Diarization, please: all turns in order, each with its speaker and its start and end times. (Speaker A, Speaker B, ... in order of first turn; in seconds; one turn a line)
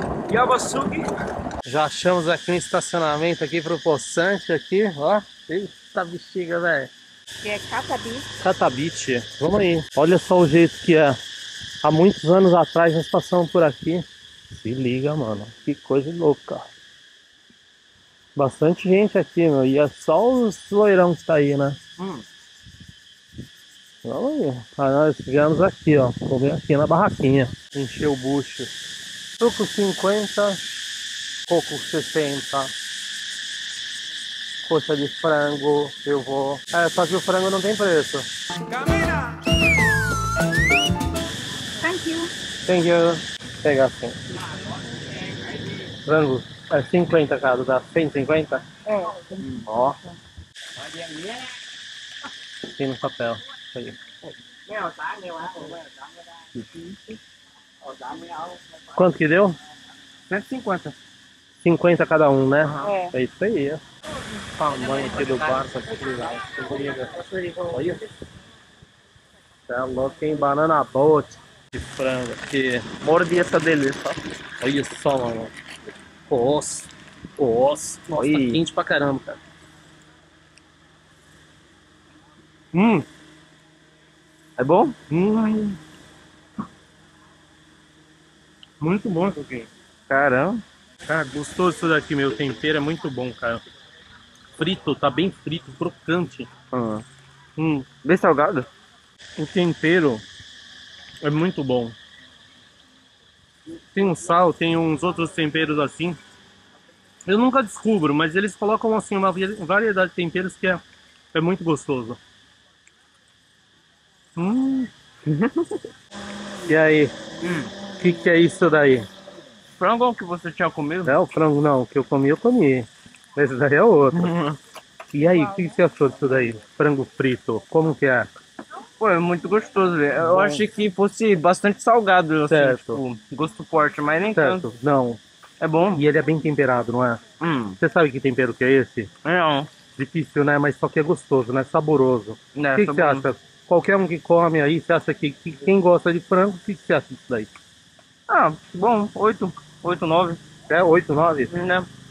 Speaker A: 0.3-1.1
Speaker B: 1.6-6.9
Speaker C: 7.4-8.3
Speaker B: 8.4-11.2
Speaker B: 11.8-16.7
Speaker B: 18.4-22.2
Speaker B: 24.0-28.7
Speaker B: 29.4-30.6
Speaker B: 31.5-32.7
Speaker B: 34.7-38.2
Speaker C: 41.8-42.3
Speaker B: 42.6-44.2
Speaker B: 46.0-48.6
Speaker C: 48.9-50.1
Speaker B: 49.4-50.0
Speaker B: 52.7-54.0
Speaker B: 56.5-56.9
Speaker B: 58.9-59.5
Speaker B: 60.3-60.9
Speaker B: 61.6-63.8
Speaker C: 62.8-63.1
Speaker B: 64.5-68.0
Speaker B: 69.7-72.8
Speaker A: 73.0-74.2
Speaker B: 74.6-75.5
Speaker B: 76.3-79.4
Speaker A: 78.1-78.6
Speaker B: 82.7-83.0
Speaker A: 84.6-85.0
Speaker B: 85.1-85.8
Speaker B: 88.8-89.7
Speaker A: 90.1-90.6
Speaker B: 91.0-93.6
Speaker B: 94.6-96.5
Speaker A: 96.7-97.0
Speaker B: 97.6-97.9
Speaker A: 98.0-98.7
Speaker B: 99.4-100.2
Speaker B: 101.2-101.9
Speaker B: 103.9-106.2
Speaker B: 107.2-110.8
Speaker B: 111.3-112.2
Speaker B: 114.3-114.9
Speaker B: 116.7-117.1
Speaker A: 117.4-117.7
Speaker B: 118.0-119.1
Speaker A: 119.8-121.2
Speaker B: 121.0-124.3
Speaker A: 124.1-124.6
Speaker B: 125.1-128.3
Speaker C: 125.3-125.8
Speaker A: 129.0-134.7
Speaker B: 130.2-130.6
Speaker B: 132.5-133.0
Speaker B: 134.3-135.2
Speaker A: 135.6-136.0
Speaker B: 135.9-137.2
Speaker A: 137.4-137.8
Speaker B: 137.8-139.1
Speaker A: 139.2-139.7
Speaker B: 140.0-147.5
Speaker A: 142.5-143.2
Speaker A: 148.3-150.4
Speaker B: 150.7-151.5
Speaker A: 151.5-151.9